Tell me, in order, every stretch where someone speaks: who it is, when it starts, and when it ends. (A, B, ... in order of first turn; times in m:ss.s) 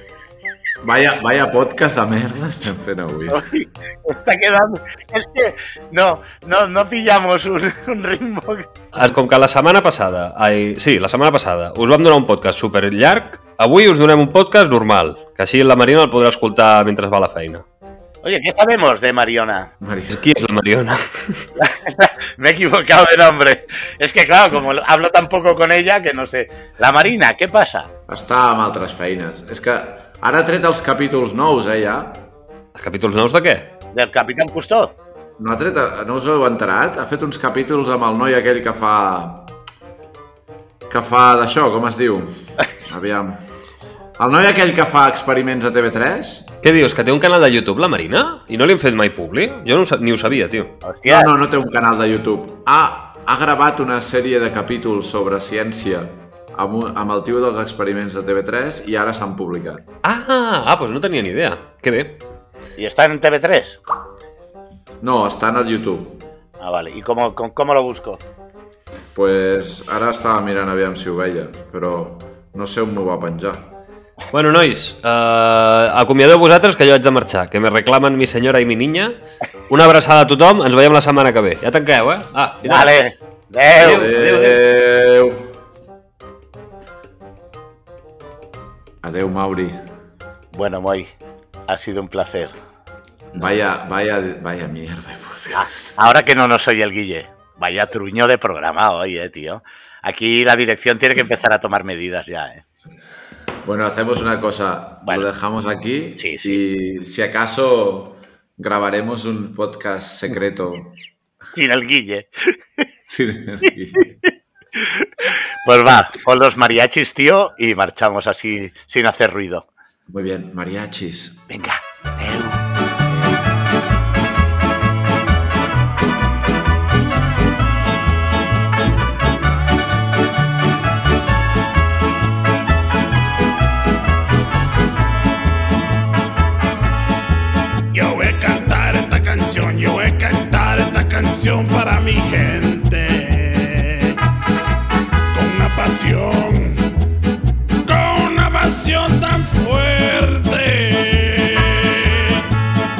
0:00.8-0:03.5 A
0:03.3-0:08.7 B
0:08.9-0:17.6 C
0:18.2-0:19.7 B
0:19.8-0:20.3 A
0:20.1-0:21.5 C
0:21.6-0:27.9 B
0:28.1-0:32.3 A
0:32.8-0:33.7 C
0:33.9-0:35.0 B
0:35.4-0:39.5 A
0:40.9-0:43.5 A
0:44.2-0:46.5 A
0:46.6-0:50.7 C
0:50.8-0:51.3 B
0:51.1-0:59.8 A
1:00.0-1:02.2 C
1:02.8-1:03.8 B
1:05.0-1:06.3 A
1:06.6-1:08.2 B
1:09.1-1:13.7 A
1:14.3-1:19.2 C
1:19.7-1:23.0 C
1:22.6-1:24.1 B
1:23.8-1:24.6 C
1:23.8-1:25.5 A
1:29.0-1:29.8 A
1:30.5-1:31.1 B
1:31.7-1:32.5 B
1:33.3-1:36.0 A
1:35.5-1:42.6 B
1:43.6-1:51.0 A
1:46.2-1:46.6 B
1:51.5-1:52.9 B
1:53.1-1:54.2 A
1:54.8-1:59.7 B
2:00.1-2:01.4 A
2:01.5-2:03.4 B
2:17.9-2:24.2 D
2:25.3-2:27.0 D
2:27.8-2:32.5 D